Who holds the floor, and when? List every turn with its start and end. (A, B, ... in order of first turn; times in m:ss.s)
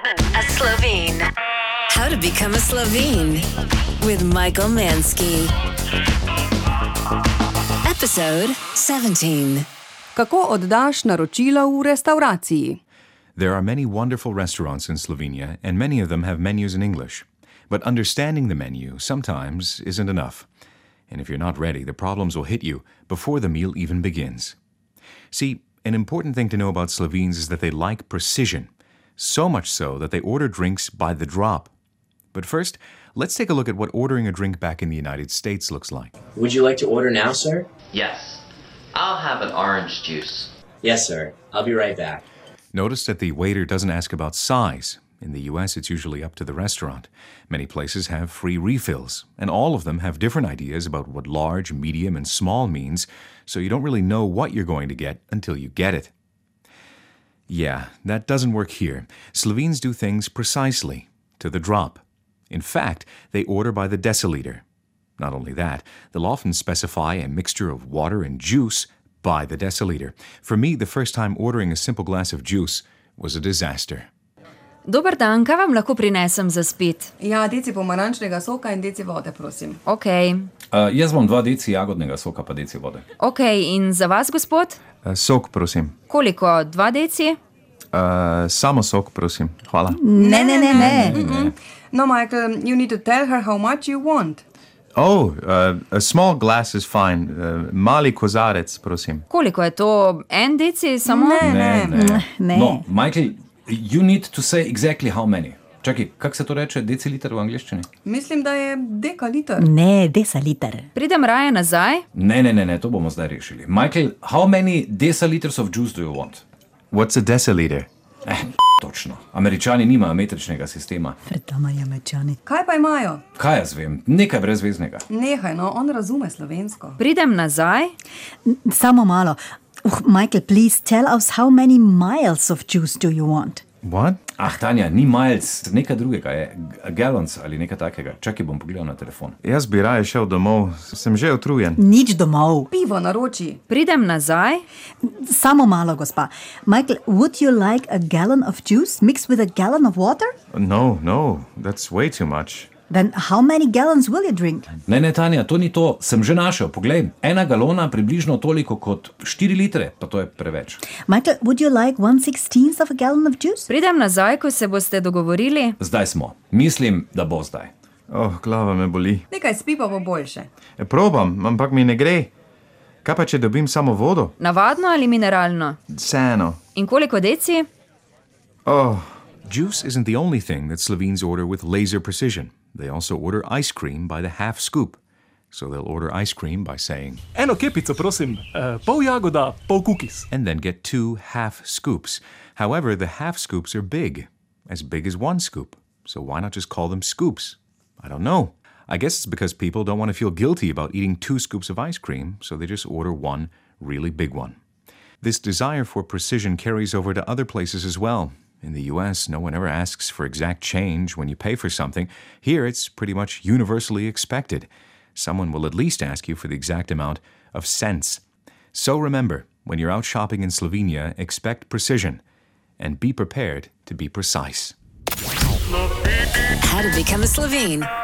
0:00.4-0:01.2 A
0:01.9-0:03.4 A
0:04.0-0:05.5 A
0:07.9-0:09.6 B
0:10.2-0:12.8 C
0:13.4-0:20.5 D
0:21.1-0:24.6 D
0:25.3-0:31.7 D
0:32.3-0:36.2 D
0:36.4-0:37.7 E
0:37.9-0:38.4 F
0:38.9-0:40.5 F
0:40.8-0:42.2 E
0:42.7-0:56.1 D
0:57.5-1:04.6 D
1:05.2-1:14.1 D
1:14.8-1:17.1 B
1:17.2-1:19.8 C
1:19.8-1:20.5 B
1:20.7-1:23.0 G
1:23.2-1:24.8 B
1:25.0-1:26.0 D
1:26.1-1:27.4 B
1:27.9-1:30.1 D
1:29.9-1:31.2 H
1:30.2-1:34.4 C
1:30.8-1:31.5 G
1:35.0-1:39.3 D
1:39.3-1:41.4 B
1:41.0-1:42.0 C
1:41.4-1:47.9 G
1:41.9-1:42.8 H
1:48.0-1:49.7 C
1:49.6-1:50.9 H
1:51.0-1:52.0 B
1:52.2-1:56.4 G
1:56.9-1:57.9 D
1:58.3-2:01.2 G
2:01.2-2:02.4 H
2:02.5-2:03.2 C
2:03.4-2:05.0 G
2:05.1-2:07.0 C
2:07.0-2:07.9 B
2:08.4-2:13.6 H
2:13.8-2:14.2 D
2:14.4-2:19.4 G
2:19.4-2:21.8 D
2:21.8-2:22.7 H
2:22.7-2:23.6 C
2:23.7-2:24.6 B
2:25.3-2:30.3 H
2:30.5-2:32.7 D
2:32.9-2:34.7 H
2:34.9-2:40.8 G
2:41.1-2:43.7 H
2:43.7-2:45.8 B
2:45.8-2:47.7 G
2:48.1-2:49.2 D
2:49.3-2:50.5 C
2:50.8-2:52.3 D
2:53.0-2:54.4 D
2:54.4-2:55.8 B
2:55.9-2:56.6 D
2:56.8-2:57.7 B
2:58.7-3:05.0 D
3:05.5-3:07.2 D
3:07.4-3:10.2 I
3:10.3-3:24.6 D
3:25.2-3:38.2 D
3:38.7-3:42.2 D
3:42.8-3:44.8 D
3:46.7-3:47.9 B
3:46.9-3:47.6 A